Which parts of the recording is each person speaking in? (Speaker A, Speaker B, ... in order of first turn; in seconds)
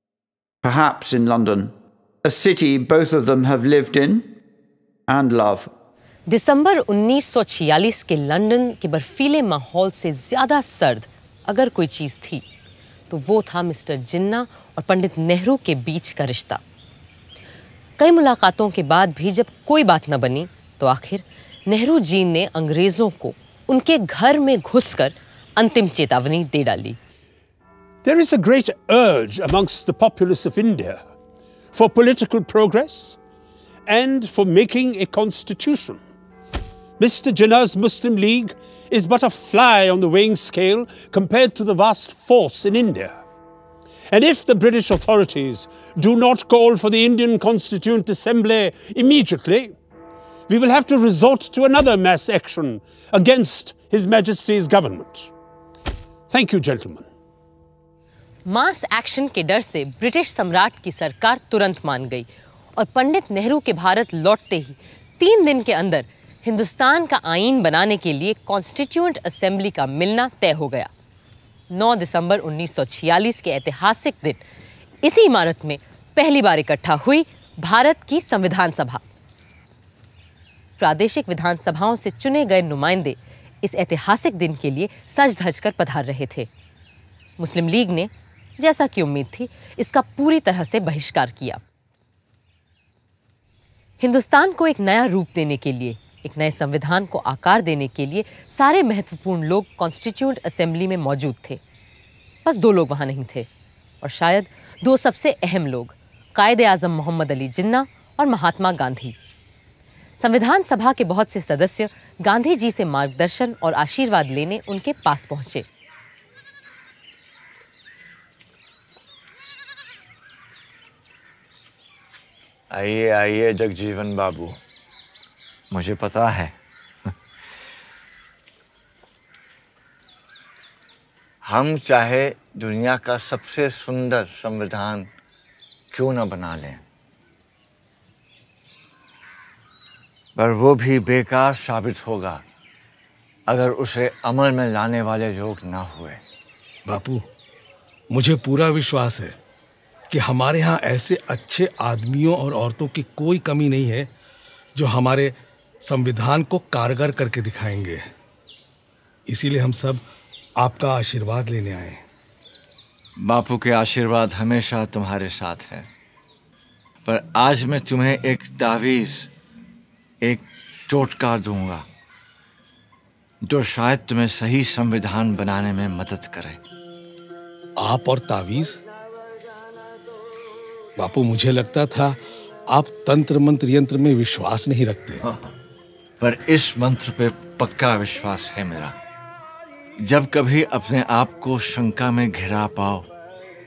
Speaker A: 0.6-4.3, 5.1-5.7
Speaker B: 6.3-12.4, 13.1-16.6, 18.0-27.0, 58.5-70.9, 71.7-74.4, 75.0-79.0, 80.8-86.5, 87.4-91.6, 94.0-101.6, 102.5-103.5, 104.0-109.2, 110.2-115.7
Speaker C: 28.0-31.1, 31.7-33.2, 33.9-36.0, 37.0-43.2, 44.1-49.8, 50.5-55.3, 56.3-57.1
Speaker D: 122.7-124.6, 125.7-126.5, 131.4-135.1, 135.9-136.8, 140.3-142.4, 143.5-146.2, 163.2-165.9, 167.1-169.3, 170.2-171.8, 173.4-176.6, 186.2-189.0, 190.0-193.1
Speaker E: 146.9-147.2, 148.1-149.3, 150.1-154.1, 154.8-158.1, 159.3-160.0, 160.6-162.0, 177.8-178.8, 181.0-182.2, 182.7-185.3